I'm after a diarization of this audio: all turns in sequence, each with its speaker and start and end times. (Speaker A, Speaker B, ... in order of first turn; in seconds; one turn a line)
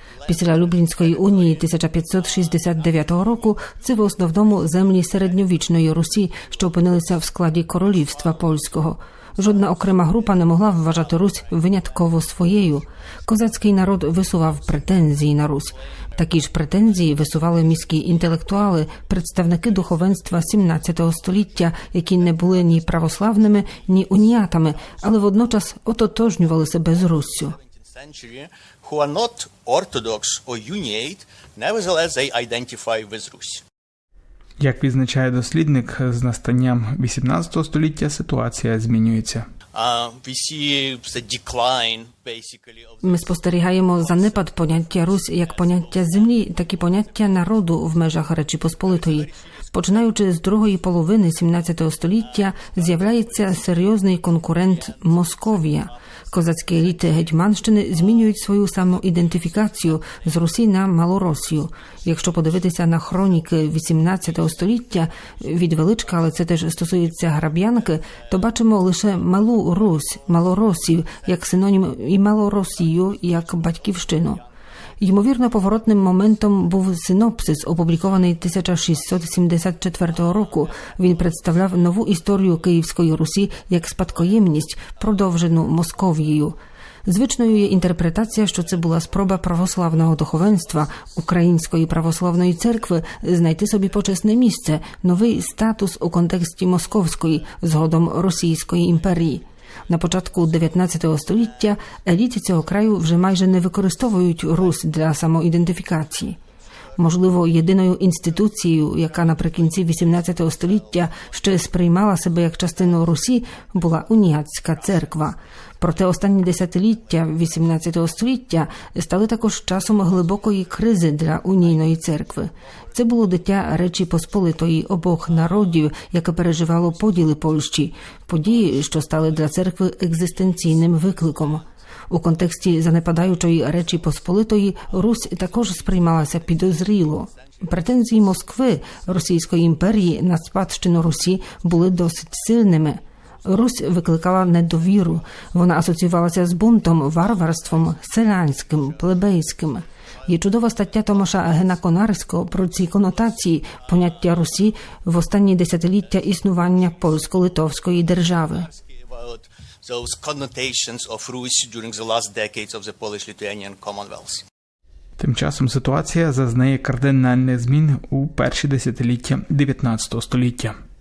Speaker A: 0.3-27.6
Speaker B: 27.8-33.6
Speaker C: 34.6-39.5
Speaker B: 39.7-43.0
Speaker A: 43.0-74.4
Speaker A: 75.0-106.4
Speaker A: 107.0-158.7
Speaker B: 159.0-164.4
Speaker C: 165.2-170.7